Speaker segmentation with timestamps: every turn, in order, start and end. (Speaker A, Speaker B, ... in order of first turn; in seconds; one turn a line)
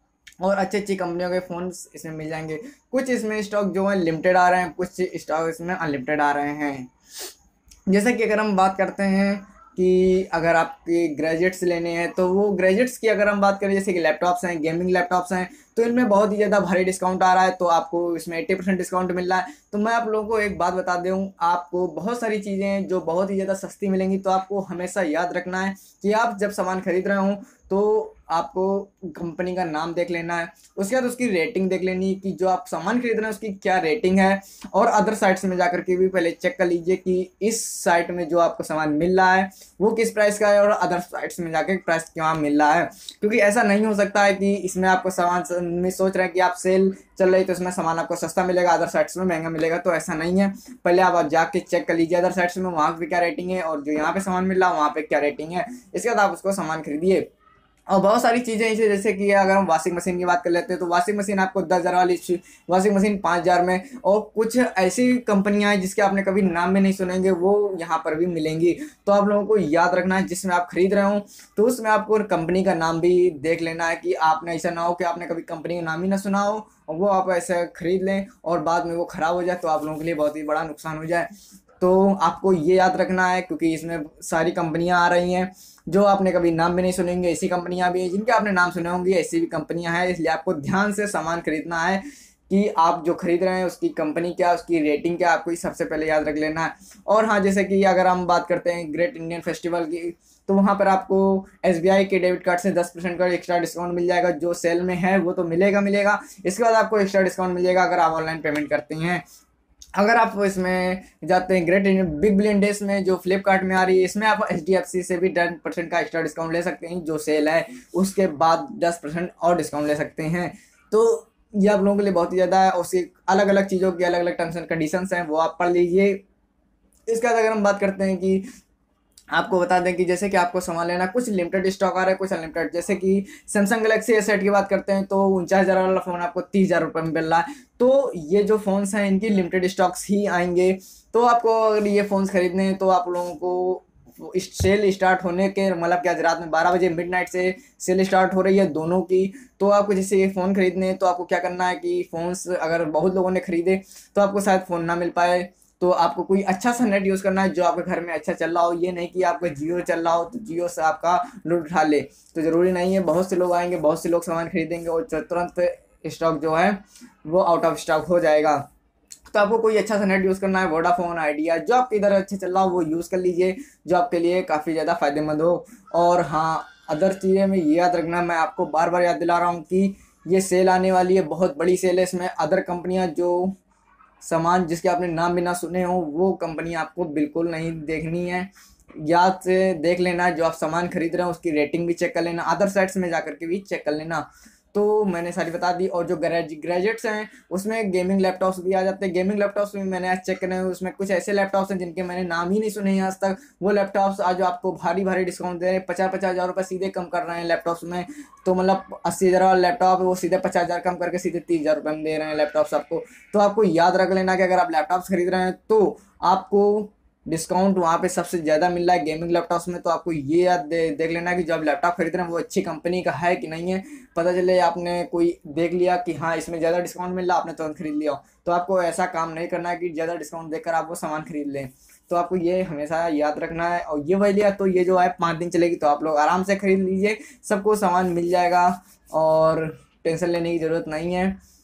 Speaker A: 0.4-6.9
Speaker A: 7.9-57.3
Speaker A: 57.9-81.3
Speaker A: 81.8-109.2
Speaker A: 110.0-126.2
Speaker A: 127.1-128.4
Speaker A: 129.3-168.6
Speaker A: 169.3-183.5
Speaker A: 184.2-188.5
Speaker A: 189.1-241.4